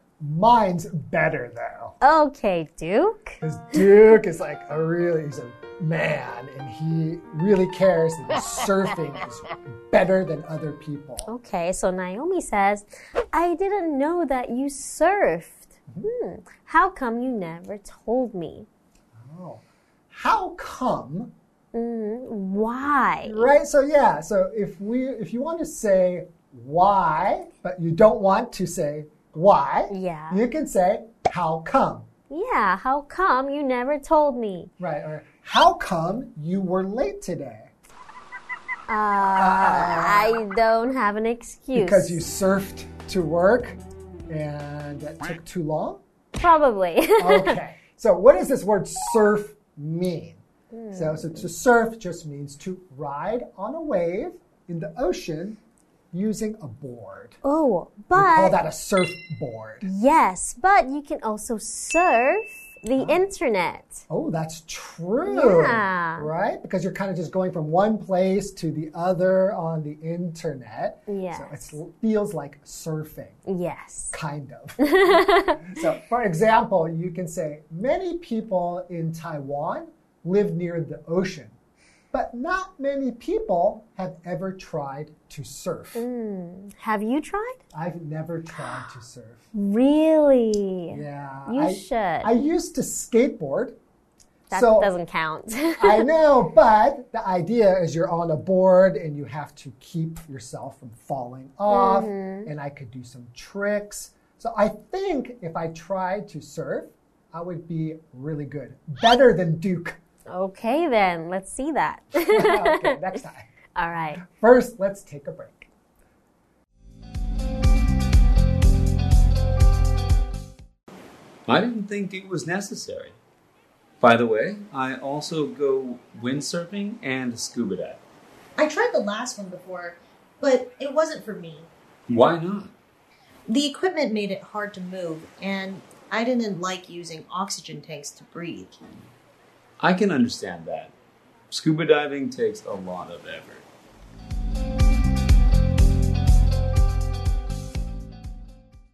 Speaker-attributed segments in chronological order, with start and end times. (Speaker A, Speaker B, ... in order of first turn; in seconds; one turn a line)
Speaker A: 0.2-1.9
Speaker B: 2.0-3.4
Speaker A: 3.4-11.3
Speaker B: 11.3-18.7
Speaker A: 19.1-21.3
Speaker B: 21.7-23.5
Speaker A: 23.2-32.1
Speaker B: 29.9-30.4
Speaker B: 32.3-34.7
Speaker A: 34.8-37.7
Speaker B: 38.9-42.2
Speaker A: 39.3-40.4
Speaker A: 41.8-46.0
Speaker B: 46.4-47.6
Speaker A: 47.2-50.4
Speaker B: 50.7-51.5
Speaker A: 51.0-55.6
Speaker A: 56.1-57.4
Speaker B: 57.4-58.6
Speaker A: 58.1-59.9
Speaker B: 59.8-64.0
Speaker A: 63.0-63.2
Speaker A: 64.1-73.4
Speaker B: 65.3-66.3
Speaker B: 71.1-71.8
Speaker B: 73.5-74.2
Speaker A: 74.1-81.5
Speaker B: 74.8-75.7
Speaker A: 82.1-86.1
Speaker B: 86.0-87.6
Speaker A: 87.7-89.5
Speaker B: 89.5-92.3
Speaker A: 90.9-93.8
Speaker A: 94.5-94.9
Speaker B: 94.5-96.1
Speaker A: 95.8-110.0
Speaker B: 101.7-102.5
Speaker B: 110.3-112.9
Speaker A: 112.2-113.5
Speaker B: 113.8-114.2
Speaker A: 114.1-115.7
Speaker C: 121.5-123.2
Speaker C: 124.0-128.0
Speaker D: 128.6-131.7
Speaker C: 132.1-132.7
Speaker D: 133.5-138.8
Speaker C: 139.8-140.9
Speaker C: 141.5-143.7